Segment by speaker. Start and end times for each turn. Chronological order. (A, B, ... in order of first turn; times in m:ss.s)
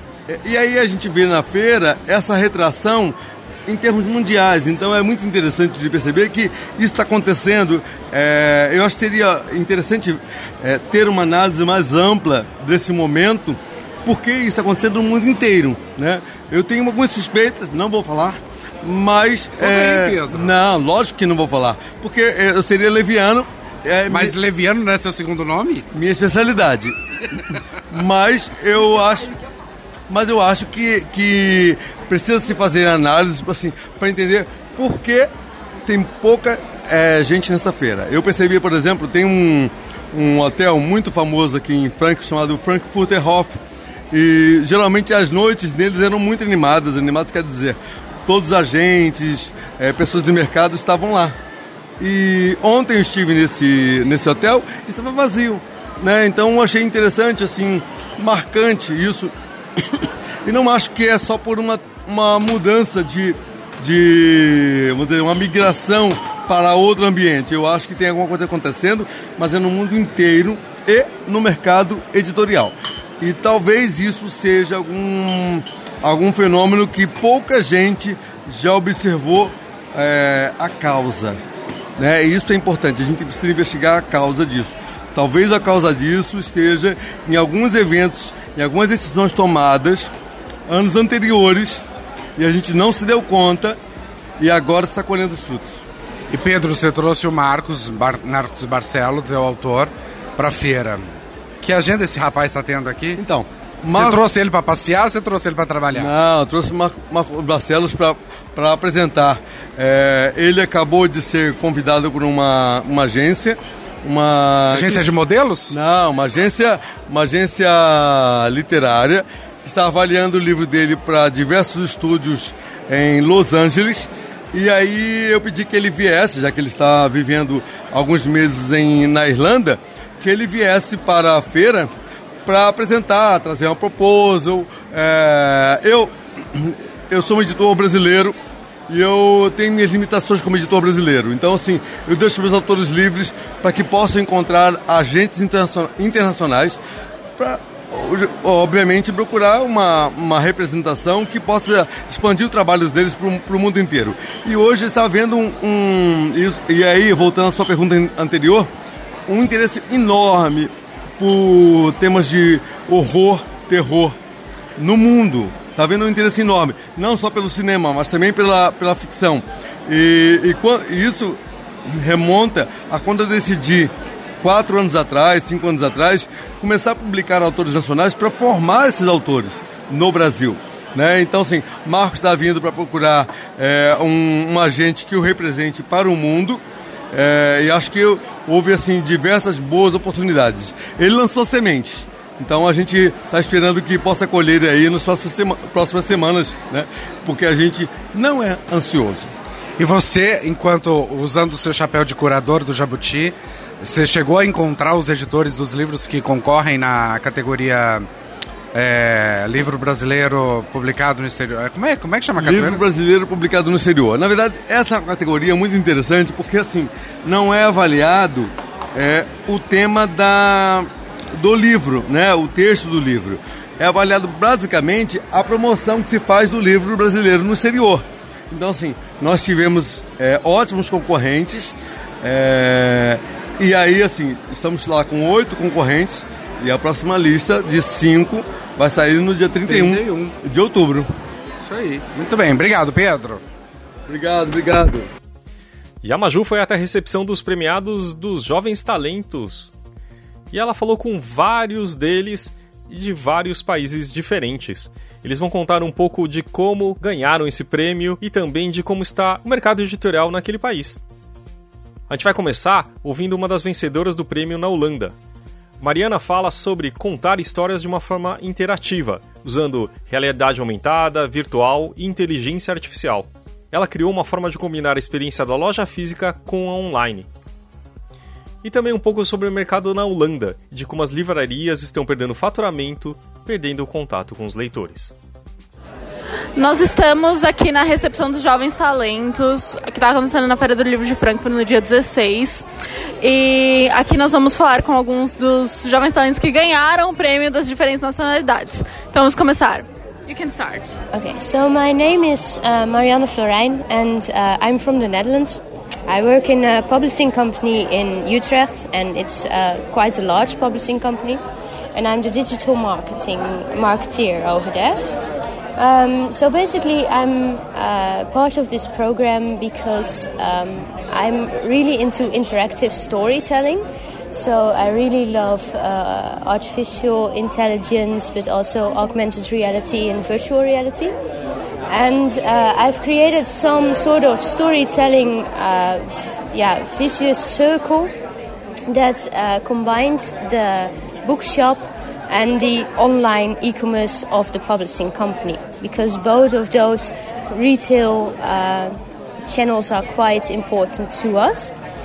0:00.3-0:03.2 A
0:03.7-0:24.4 A
0:19.6-0:20.5 B
0:24.1-0:25.8 B
0:25.9-0:27.0 A
0:27.9-0:29.3 A
0:30.1-0:35.3 A
0:35.9-0:43.6 A
0:44.1-0:51.4 A
0:52.0-0:59.3 A
1:00.4-1:21.4 A
1:22.0-1:30.1 A
1:30.7-1:31.8 A
1:32.4-1:33.8 A
1:34.4-1:35.8 A
1:36.3-1:41.1 B
1:41.6-1:43.2 B
1:43.2-1:44.2 A
1:43.9-1:46.1 B
1:45.9-1:55.1 A
1:54.7-1:55.8 B
1:55.7-2:11.9 A
2:12.5-2:18.4 A
2:18.9-2:26.8 A
2:27.4-2:38.7 A
2:39.3-2:44.2 A
2:44.8-2:53.9 A
2:54.4-3:19.3 A
3:19.8-3:28.1 B
3:28.7-3:32.8 B
3:32.4-3:40.9 A
3:41.4-4:01.1 A
3:59.7-4:00.3 B
4:01.6-4:03.4 B
4:04.1-4:05.1 A
4:06.0-4:09.7 C
4:10.5-4:21.0 C
4:22.1-4:25.1 C
4:25.8-4:37.3 C
4:38.6-4:45.1 C
4:46.6-4:52.7 D
4:53.2-5:01.0 D
5:01.1-5:11.4 E
5:12.0-5:15.0 E
5:15.8-5:31.1 E
5:31.9-5:38.1 E
5:38.9-5:51.7 E